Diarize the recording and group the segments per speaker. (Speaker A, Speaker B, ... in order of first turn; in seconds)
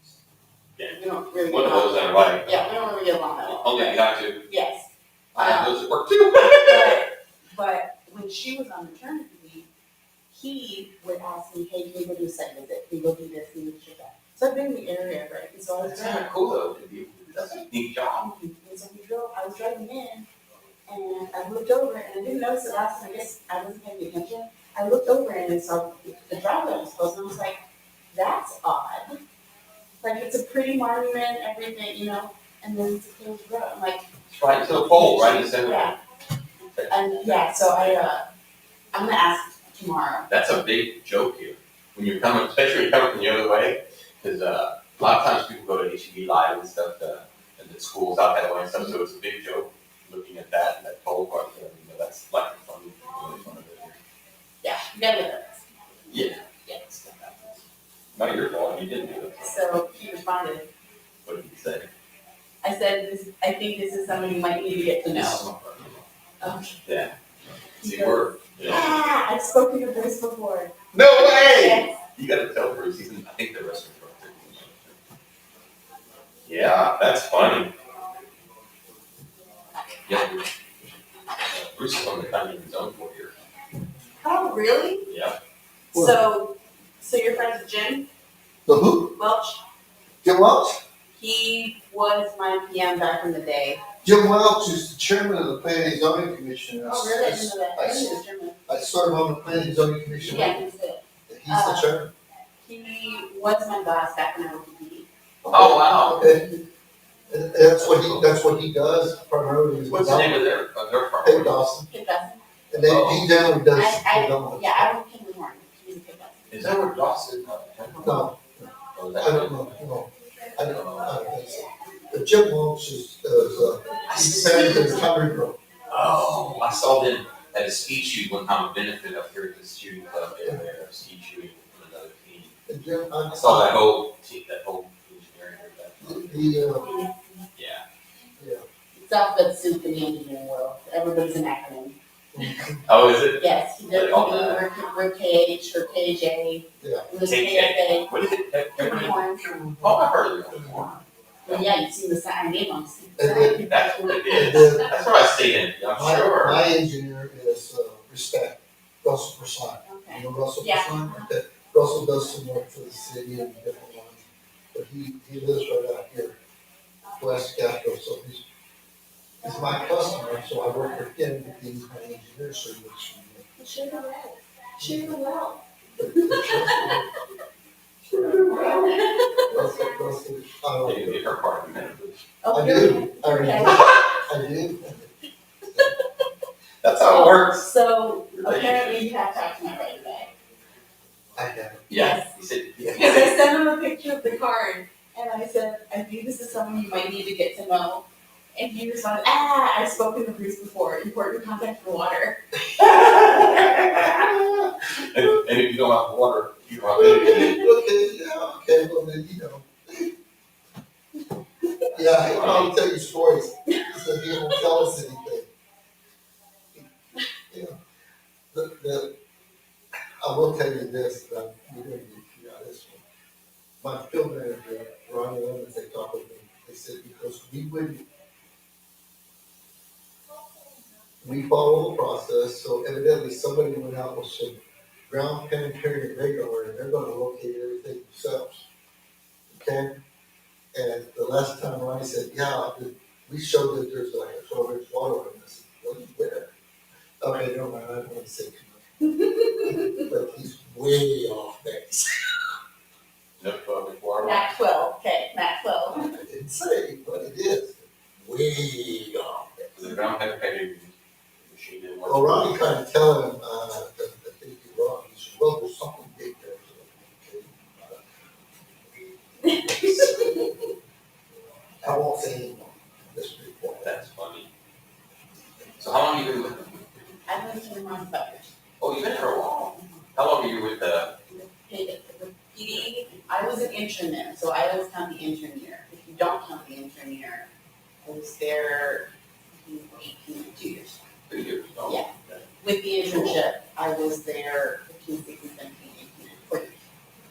Speaker A: 0.8-2.7, 3.4-4.4, 5.3-7.0, 15.8-18.2, 34.3-36.0, 36.8-38.0, 40.3-54.0, 56.1-56.4, 58.1-59.6, 61.2-61.9, 65.1-66.0, 66.8-67.1, 67.8-69.0, 70.9-74.9, 76.4-77.7, 80.0-80.5, 81.5-83.3, 85.1-85.4, 105.5-106.2, 107.8-108.3, 109.9-111.6, 112.8-113.3, 116.5-118.2, 118.9-119.6, 120.6-121.2, 124.1-124.9, 125.9-132.5, 133.3-136.3, 137.5-137.8, 142.9-144.6, 147.2-149.2, 149.8-151.7, 153.6-156.7, 178.3-178.8, 180.8-182.2, 186.8-187.7, 188.3-189.1, 191.9-193.4, 202.8-207.7, 212.3-212.7, 253.4-254.5, 259.7-262.7, 273.8-274.5, 275.8-276.8, 278.8-281.1, 282.7-283.2, 291.3-292.4, 293.1-293.4
Speaker B: 0.9-5.7, 6.3-9.7, 10.3-16.3, 18.2-20.3, 20.9-27.6, 28.1-29.2, 30.0-34.0, 34.8-36.0, 36.9-38.2, 38.9-40.3, 54.6-55.6, 56.6-57.3, 59.4-60.7, 62.6-65.4, 66.4-66.8, 67.8-72.0, 84.2-85.1, 85.9-88.1, 89.1-89.6, 91.2-93.8, 96.8-98.6, 100.2-101.9, 102.6-105.1, 106.0-106.7, 111.9-112.4, 113.7-116.6, 124.1-125.0, 136.8-137.4, 138.9-142.7, 143.4-148.1, 148.7-149.5, 151.4-154.7, 159.8-161.3, 173.6-177.0, 178.4-179.5, 182.4-184.2, 185.8-186.2, 187.0-190.3, 191.9-192.3, 192.9-204.3, 207.0-207.5, 213.7-214.6, 249.1-250.0, 254.2-256.1, 269.4-270.6, 277.3-278.6, 281.3-287.5, 288.0-291.0, 291.9-296.8
Speaker C: 88.7-89.1, 90.2-90.8, 94.0-100.6, 101.3-102.1, 105.4-106.4, 107.3-110.4, 111.2-111.9, 112.7-114.9, 118.0-125.6, 132.7-133.7, 136.0-136.9, 138.4-138.6, 142.3-142.8, 146.8-147.1, 149.4-150.0, 150.5-150.9, 153.2-153.6, 154.3-154.9, 155.9-166.3, 167.2-168.4, 169.4-173.4, 174.8-175.2, 176.0-177.1, 178.1-178.6, 179.5-181.2, 182.5-185.1, 191.3-191.8, 204.1-205.2, 207.0-210.1, 211.9-215.5, 217.5-217.8, 218.5-219.1, 220.2-223.0, 223.8-228.1, 231.2-238.7, 239.5-239.9, 240.7-246.5, 247.2-248.8, 249.6-252.4, 255.9-259.6, 262.0-268.0, 269.8-270.4, 271.8-273.9